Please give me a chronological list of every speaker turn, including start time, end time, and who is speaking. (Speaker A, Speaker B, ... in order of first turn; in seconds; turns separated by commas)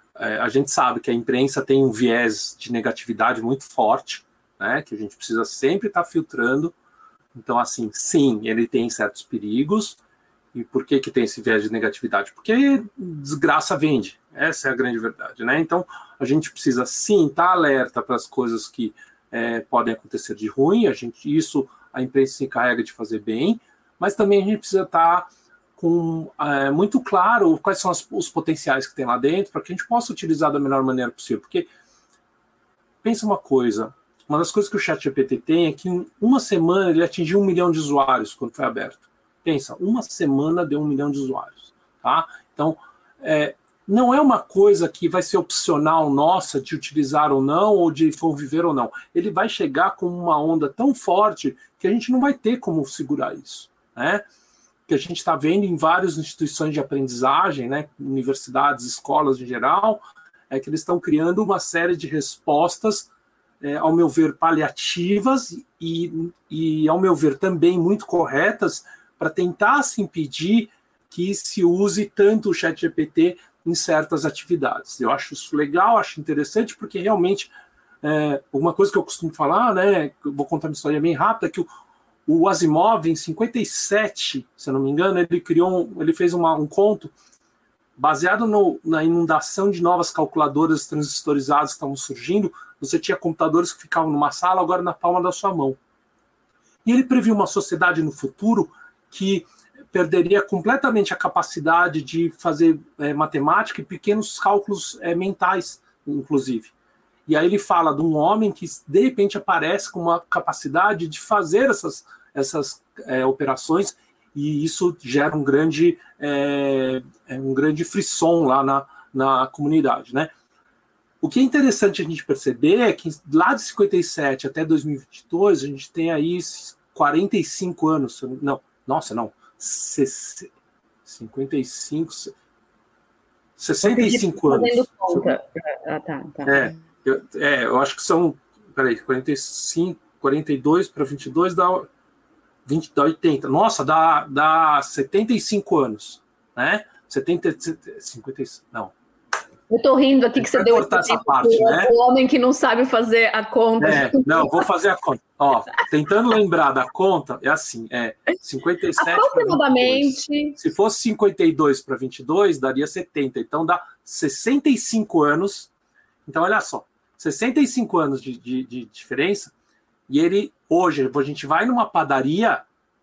Speaker A: 0.1-6.7, Speaker A: 7.3-10.0, Speaker A: 10.5-31.7, Speaker A: 33.0-54.2, Speaker A: 54.9-63.1, Speaker A: 63.6-77.5, Speaker A: 78.0-81.7, Speaker A: 82.2-87.1, Speaker A: 88.0-95.8, Speaker A: 96.8-106.7, Speaker A: 107.3-120.3, Speaker A: 121.2-130.5, Speaker A: 131.0-132.3, Speaker A: 133.6-135.3, Speaker B: 133.8-136.7, Speaker A: 136.4-141.9, Speaker A: 142.7-148.9, Speaker B: 149.7-154.6, Speaker A: 150.4-151.9, Speaker A: 153.8-165.7, Speaker B: 159.0-160.6, Speaker A: 166.2-169.5, Speaker A: 170.1-172.6